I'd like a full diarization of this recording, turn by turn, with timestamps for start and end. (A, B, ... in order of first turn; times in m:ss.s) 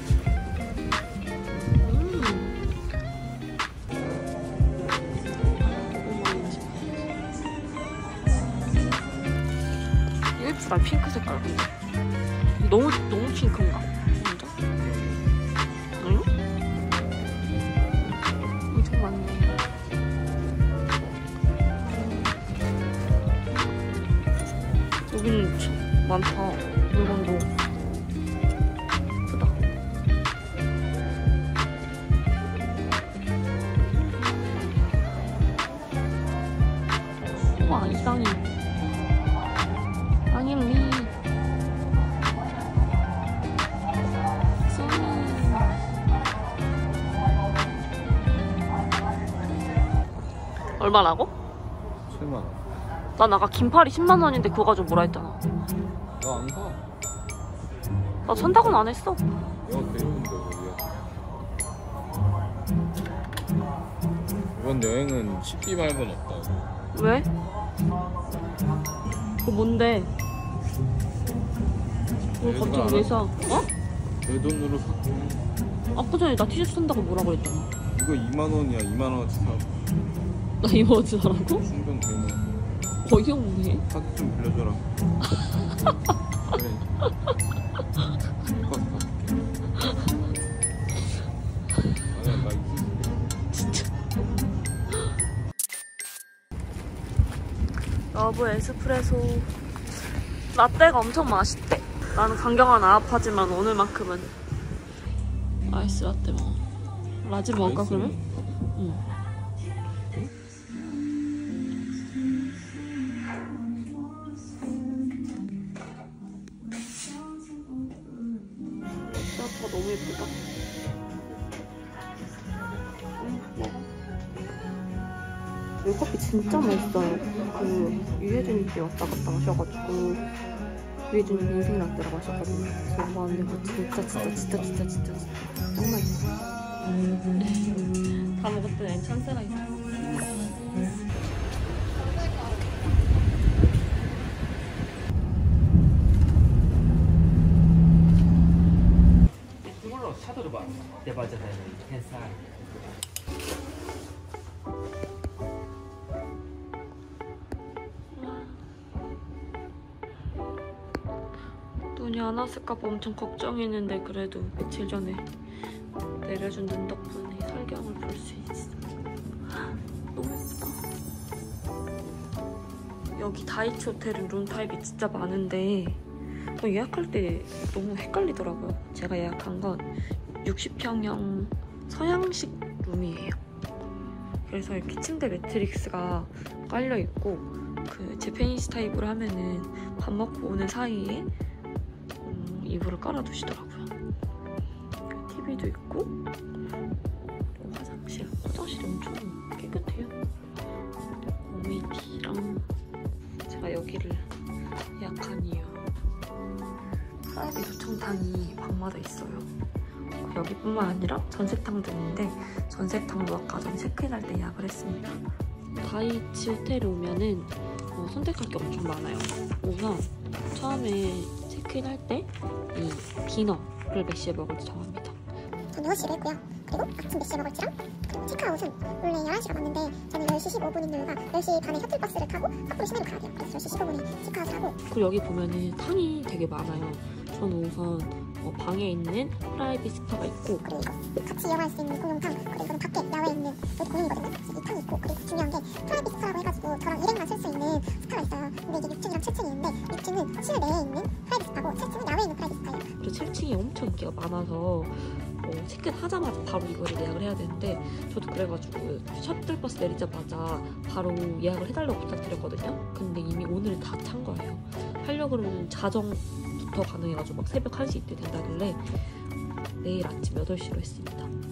0:01.5-0:02.6 A
0:05.7-0:06.9 A
0:10.4-0:11.7 A
0:12.6-0:14.5 A
0:14.8-0:15.2 B
0:16.0-0:16.3 A
0:18.7-0:19.6 A
0:21.8-0:22.3 A
0:25.1-0:27.5 A
0:29.2-0:29.6 A
0:37.4-0:38.5 A
0:40.3-0:41.1 A
0:44.7-0:45.8 A
0:50.8-0:51.3 A
0:52.1-0:52.6 B
0:53.2-0:55.4 A
0:56.2-0:56.8 B
0:58.3-0:58.8 B
0:58.3-0:59.2 A
0:59.6-1:00.9 B
1:04.5-1:06.6 B
1:06.9-1:07.3 A
1:09.4-1:10.1 A
1:12.4-1:13.3 B
1:12.4-1:13.7 A
1:14.2-1:15.4 B
1:15.9-1:17.7 A
1:17.9-1:19.7 B
1:20.6-1:21.6 A
1:21.6-1:22.4 B
1:23.0-1:23.8 A
1:23.9-1:24.8 B
1:26.4-1:26.9 B
1:28.4-1:29.4 B
1:32.1-1:33.1 B
1:33.5-1:33.8 A
1:38.1-1:39.5 A
1:40.5-1:44.3 A
1:45.6-1:46.7 A
1:47.2-1:48.2 A
1:47.6-1:48.6 B
1:48.7-1:49.0 A
1:59.1-2:00.4 A
2:03.2-2:03.8 A
2:05.8-2:10.2 A
2:11.1-2:16.3 A
2:14.1-2:14.7 B
2:17.4-2:19.7 A
2:29.6-2:32.4 C
2:38.1-2:38.6 A
2:41.9-2:45.3 A
2:46.2-2:48.8 A
2:50.1-2:50.9 A
2:53.1-2:56.0 A
2:56.6-3:03.4 A
3:04.4-3:11.3 A
3:12.2-3:13.9 A
3:15.1-3:16.2 A
3:17.6-3:20.2 A
3:21.2-3:22.7 A
3:23.5-3:24.3 A
3:25.0-3:25.9 A
3:27.3-3:29.5 A
3:30.2-3:35.2 A
3:35.7-3:45.2 A
3:45.7-3:54.8 D
3:54.9-4:00.6 A
4:00.6-4:12.9 D
4:13.0-4:29.1 A
4:29.8-4:31.3 A